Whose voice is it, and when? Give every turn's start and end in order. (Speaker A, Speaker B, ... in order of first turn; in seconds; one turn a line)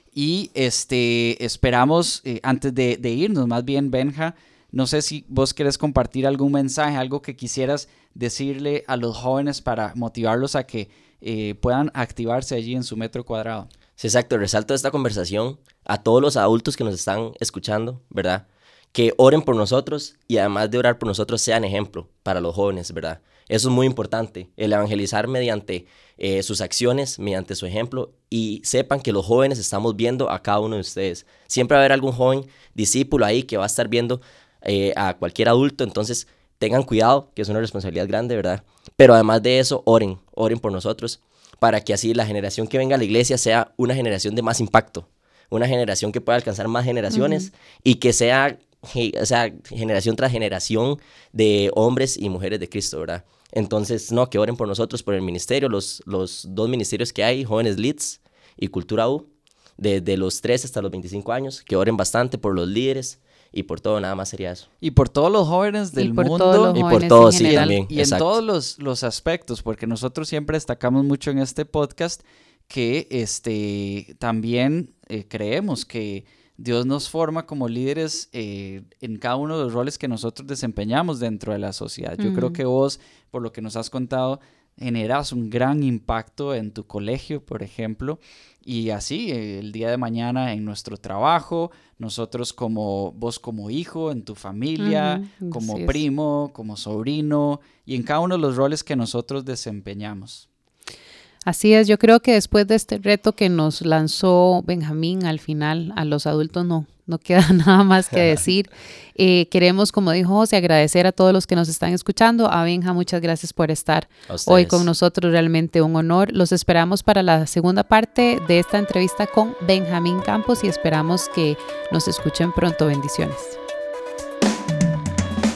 Speaker A: 0.1-13.7
Speaker B: 14.0-59.3
Speaker C: 47.1-47.5
Speaker B: 59.8-64.7
Speaker A: 64.8-100.4
Speaker C: 66.0-67.8
Speaker B: 66.7-68.3
Speaker C: 82.2-82.6
Speaker C: 94.8-96.0
Speaker C: 101.5-123.6
Speaker B: 114.3-114.9